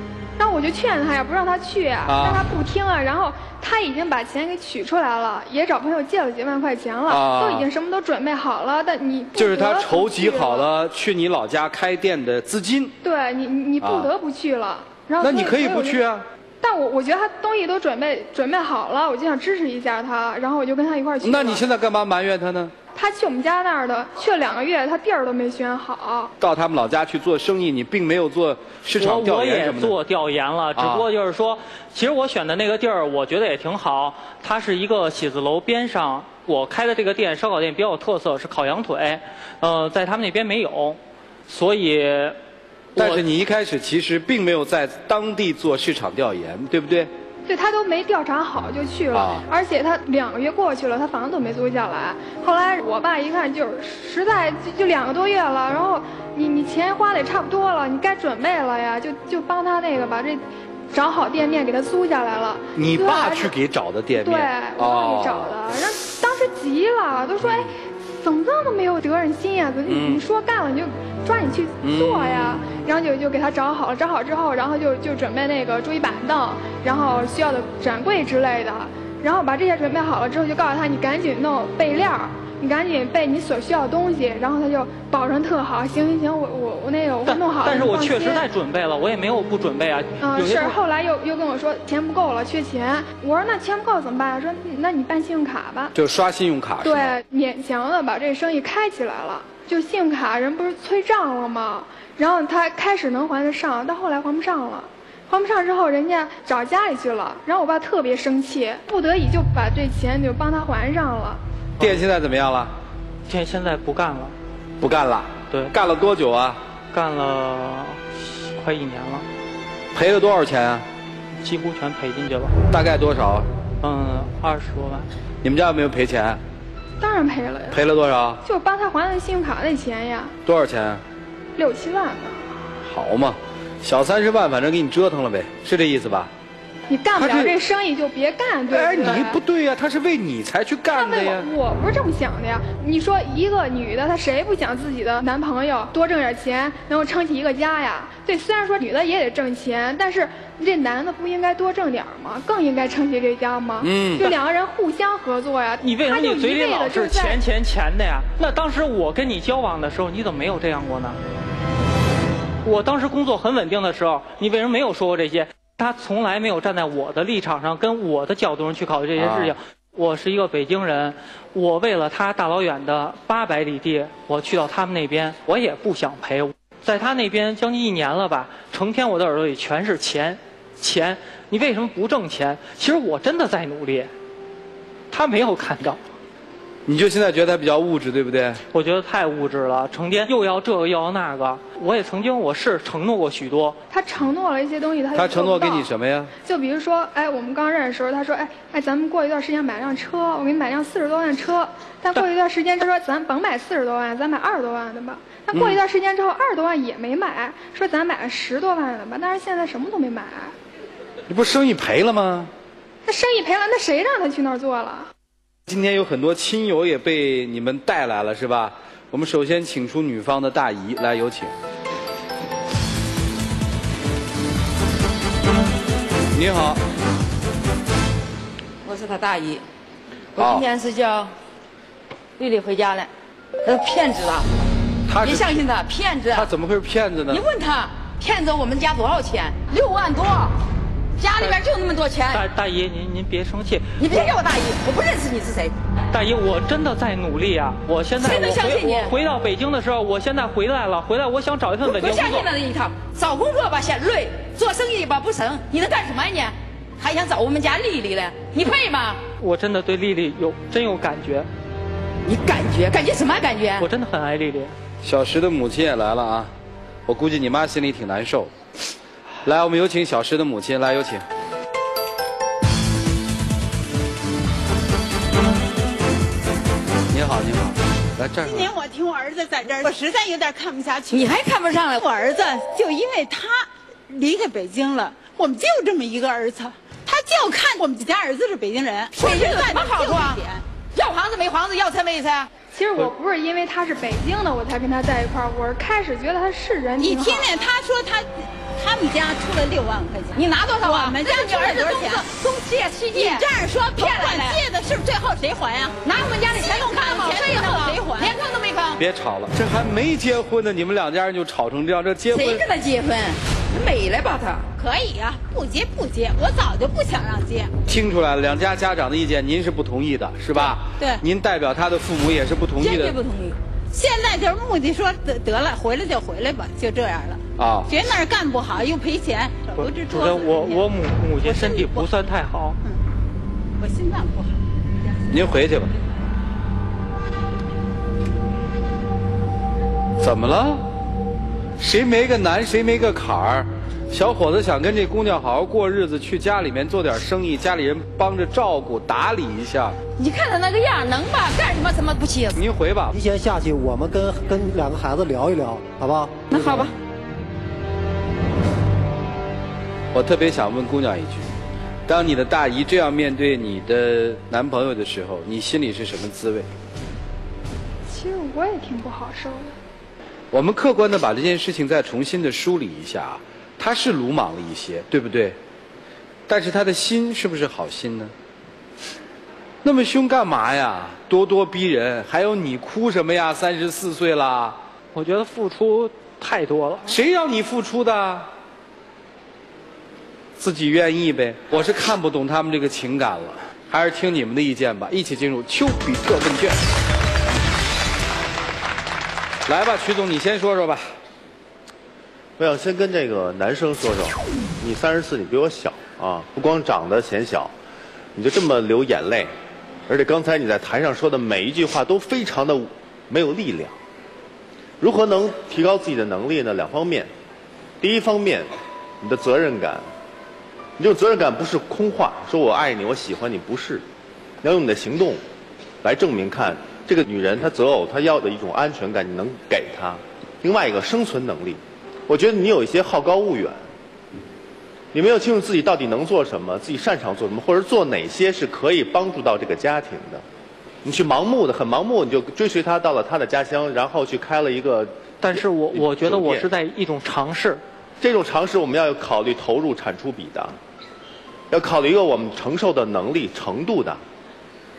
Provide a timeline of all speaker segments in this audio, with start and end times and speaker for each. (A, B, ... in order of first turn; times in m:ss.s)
0:00.4-0:10.7 A
0:02.1-0:02.5 B
0:07.1-0:07.7 B
0:09.4-0:13.0 B
0:13.0-0:16.0 A
0:13.8-0:14.1 B
0:15.2-0:16.2 B
0:16.6-0:21.6 A
0:21.2-0:22.7 B
0:23.0-0:26.3 A
0:26.4-0:30.0 B
0:29.0-0:42.4 C
0:30.8-0:31.1 B
0:43.0-0:43.2 C
0:43.0-0:47.1 B
0:47.5-1:03.5 A
0:49.1-0:49.4 B
1:02.8-1:05.6 B
1:04.2-1:28.5 A
1:07.4-1:07.7 B
1:09.9-1:10.2 B
1:11.8-1:12.8 B
1:27.2-1:30.8 C
1:30.2-1:35.9 A
1:35.9-1:37.2 B
1:36.8-1:51.4 A
1:51.8-1:52.7 B
1:53.3-1:54.4 C
1:54.8-1:56.6 B
1:56.9-1:59.3 C
1:59.9-2:00.9 B
2:01.4-2:02.6 C
2:02.7-2:03.5 B
2:03.8-2:05.1 C
2:05.4-2:06.4 B
2:07.0-2:07.8 A
2:07.7-2:08.4 B
2:08.4-2:10.3 A
2:10.4-2:11.0 B
2:11.6-2:12.5 A
2:12.8-2:16.3 B
2:16.9-2:19.4 A
2:17.2-2:17.6 B
2:18.7-2:21.5 B
2:20.9-2:37.4 A
2:33.8-2:34.3 B
2:35.8-2:41.2 C
2:42.6-3:04.1 C
2:49.2-2:49.6 B
3:05.1-3:06.0 C
3:06.9-3:08.6 B
3:08.7-3:13.8 C
3:13.9-3:15.9 A
3:15.1-3:16.3 B
3:16.4-3:30.5 A
3:25.5-3:25.8 B
3:31.3-3:32.5 B
3:33.0-3:35.1 A
3:35.7-3:41.5 B
3:46.3-3:46.8 B
3:48.8-3:49.6 D
3:50.4-3:51.3 D
3:50.4-3:50.7 B
3:52.4-3:53.1 D
3:53.6-3:54.5 D
3:55.1-3:55.6 B
3:55.2-3:56.5 D
3:56.3-3:57.4 B
3:57.3-4:00.6 D
4:01.2-4:02.4 D
4:02.3-4:04.2 C
4:04.0-4:05.7 D
4:06.1-4:12.5 C
4:08.2-4:09.2 D
4:11.8-4:19.2 D
4:19.4-4:21.5 C
4:22.2-4:23.9 D
4:23.8-4:24.7 C
4:25.0-4:26.5 B
4:27.1-4:28.5 B
4:29.4-4:31.2 B
4:37.1-4:38.7 B
4:38.4-4:50.6 E
4:41.1-4:42.0 D
4:49.2-4:50.4 D
4:51.0-4:52.1 D
4:51.4-4:52.5 E
4:52.7-4:57.5 A
4:57.0-5:02.4 E
5:00.4-5:04.6 D
5:03.1-5:06.0 E
5:06.0-5:08.4 D
5:06.5-5:09.0 E
5:09.0-5:12.6 B
5:12.3-5:14.7 D
5:14.7-5:17.7 E
5:17.9-5:23.2 B
5:22.8-5:23.2 E
5:23.1-5:23.5 D
5:23.9-5:30.9 E
5:27.6-5:27.9 B
5:29.8-5:32.8 C
5:31.4-5:32.1 E
5:33.8-5:35.2 E
5:35.3-5:35.9 B
5:40.2-5:40.9 B
5:41.8-5:50.0 B
5:50.2-5:52.6 D
5:52.5-5:53.2 B
5:53.1-5:56.8 F
5:56.5-5:56.9 D
6:00.1-6:01.6 B
6:02.1-6:06.7 B
6:08.1-6:09.8 A
6:10.5-6:15.6 B
6:16.5-6:18.3 B
6:19.8-6:24.8 B
6:25.1-6:27.1 C
6:27.1-6:28.5 B
6:30.6-6:36.8 B
6:39.7-6:41.1 B
6:42.6-6:47.7 G
6:48.4-6:49.5 G
6:50.1-6:54.0 G
6:55.0-6:57.3 G
6:58.0-6:58.7 G
6:59.2-7:00.0 G
7:01.0-7:04.0 G
7:04.6-7:05.4 G
7:06.0-7:13.8 G
7:15.1-7:20.4 G
7:21.0-7:26.7 G
7:25.4-7:27.8 C
7:28.2-7:30.8 G
7:31.7-7:34.2 G